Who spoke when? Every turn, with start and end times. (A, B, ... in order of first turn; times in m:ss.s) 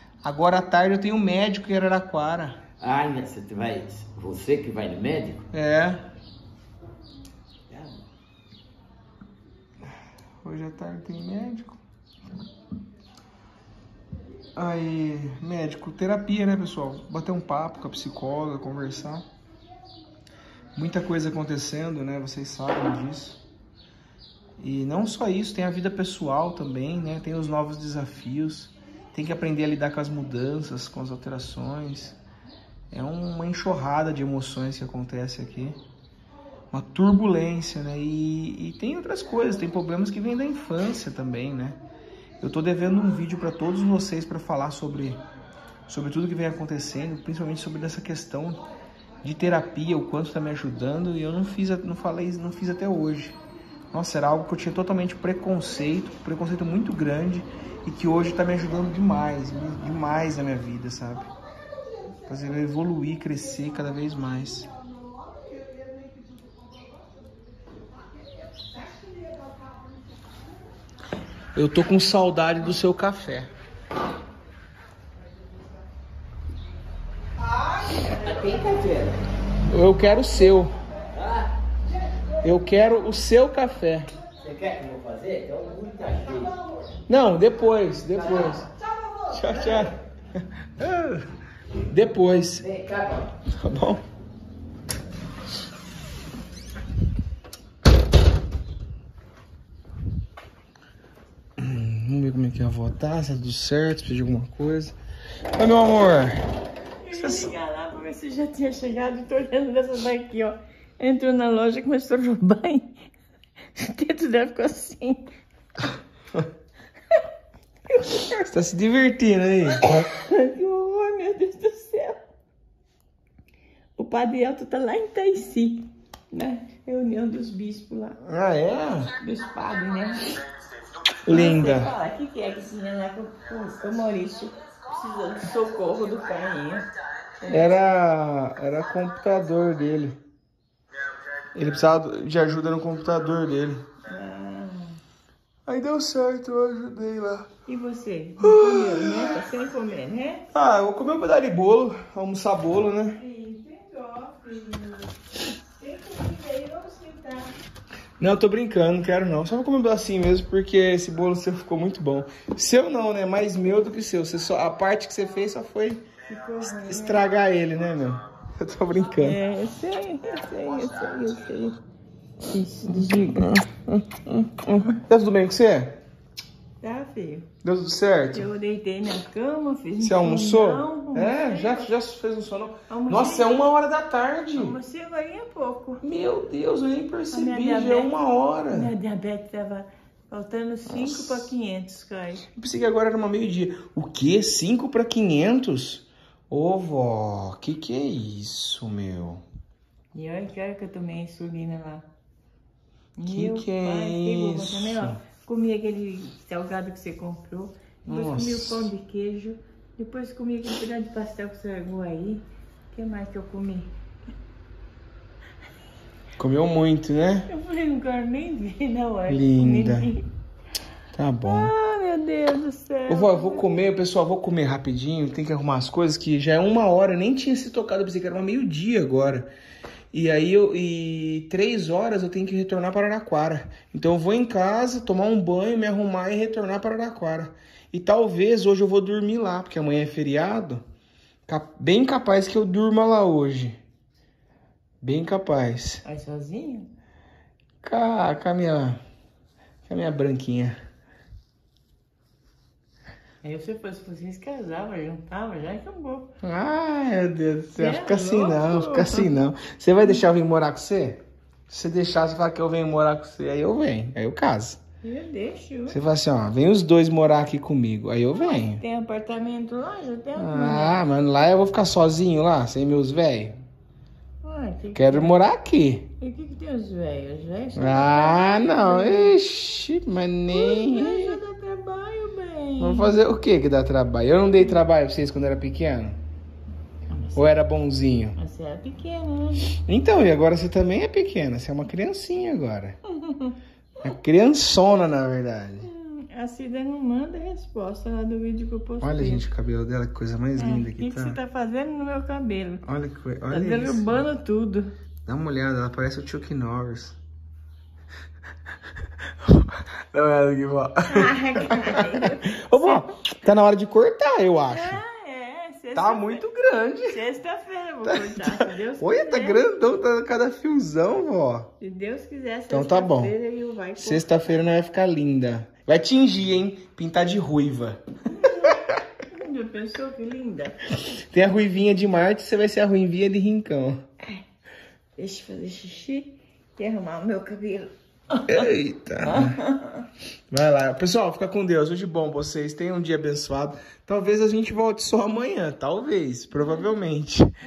0:00.2-0:02.6 A
0:02.8-0:05.5 B
0:05.5-0:06.0 A
0:07.7-0:08.1 B
0:10.4-0:11.8 A
0:14.6-0:19.2 A
0:20.8-0:23.4 A
0:24.6-0:32.2 A
0:32.9-0:35.8 A
0:36.7-0:41.8 A
0:42.4-0:45.2 A
0:45.9-0:48.6 A
0:49.2-0:53.4 A
0:53.9-1:01.3 A
1:02.2-1:04.7 A
1:11.5-1:13.5 A
1:18.0-1:19.2 B
1:19.7-1:20.7 A
1:21.1-1:21.5 B
1:22.4-1:24.1 A
1:24.4-1:26.7 B
1:27.1-1:28.7 A
1:29.3-1:31.3 A
1:31.9-1:32.7 A
1:32.6-1:33.3 B
1:33.4-1:34.0 A
1:41.6-1:45.0 A
1:45.6-1:46.4 A
1:47.0-1:53.0 C
1:47.1-1:47.5 A
1:53.8-1:55.3 C
1:57.9-1:58.4 C
1:58.3-1:59.8 A
1:59.8-2:02.2 C
2:04.0-2:08.2 C
2:08.2-2:09.1 A
2:09.2-2:10.4 C
2:11.2-2:11.9 A
2:11.3-2:16.9 C
2:17.4-2:17.8 C
2:17.4-2:20.2 A
2:21.5-2:23.8 A
2:24.1-2:25.0 C
2:25.6-2:27.5 A
2:27.6-2:30.4 C
2:28.4-2:29.4 A
2:30.5-2:33.2 A
2:33.1-2:37.5 C
2:38.2-2:46.0 A
2:46.3-2:47.3 C
2:46.6-2:49.4 A
2:49.2-2:51.8 C
2:52.4-2:53.5 C
2:52.9-2:56.0 A
2:56.8-2:57.5 C
2:57.6-2:58.5 A
2:58.3-3:02.0 C
3:00.0-3:04.8 A
3:02.9-3:03.5 C
3:04.5-3:06.0 C
3:06.0-3:08.9 A
3:07.3-3:08.1 C
3:08.7-3:12.4 C
3:10.9-3:11.5 A
3:12.5-3:19.4 A
3:20.1-3:22.0 C
3:23.2-3:33.9 C
3:23.2-3:25.2 A
3:28.0-3:28.9 A
3:36.4-3:37.5 A
3:37.5-3:40.2 C
3:39.3-3:40.1 A
3:41.1-3:41.7 A
3:41.4-3:43.7 C
3:43.1-3:49.5 A
3:50.1-4:00.8 A
4:01.5-4:03.8 A
4:05.0-4:06.0 A
4:06.0-4:06.9 C
4:07.8-4:09.0 A
4:09.9-4:10.8 A
4:13.4-4:16.3 C
4:16.4-4:24.8 A
4:17.7-4:19.4 C
4:25.0-4:26.0 C
4:25.9-4:28.8 A
4:28.3-4:31.0 C
4:30.3-4:33.6 A
4:34.4-4:35.4 C
4:34.9-4:36.1 A
4:36.2-4:39.4 C
4:37.7-4:41.4 A
4:40.5-4:43.2 C
4:42.8-4:46.2 A
4:47.1-4:47.5 C
4:47.3-4:48.4 A
4:48.4-4:49.7 C
4:49.7-4:53.0 A
4:53.1-4:53.6 C
4:54.0-4:55.9 A
4:55.8-4:59.4 C
4:59.0-5:01.4 A
5:00.6-5:02.8 C
5:02.8-5:04.2 A
5:03.5-5:04.9 C
5:05.2-5:07.2 A
5:09.4-5:15.0 A
5:11.0-5:13.1 C
5:14.7-5:16.4 C
5:15.9-5:17.2 A
5:17.0-5:19.8 C
5:18.0-5:21.7 A
5:21.8-5:24.6 C
5:22.7-5:23.3 A
5:24.0-5:28.9 A
5:28.3-5:31.0 C
5:31.0-5:34.0 A
5:35.2-5:38.7 C
5:38.4-5:39.6 A
5:39.2-5:40.0 C
5:40.5-5:47.5 A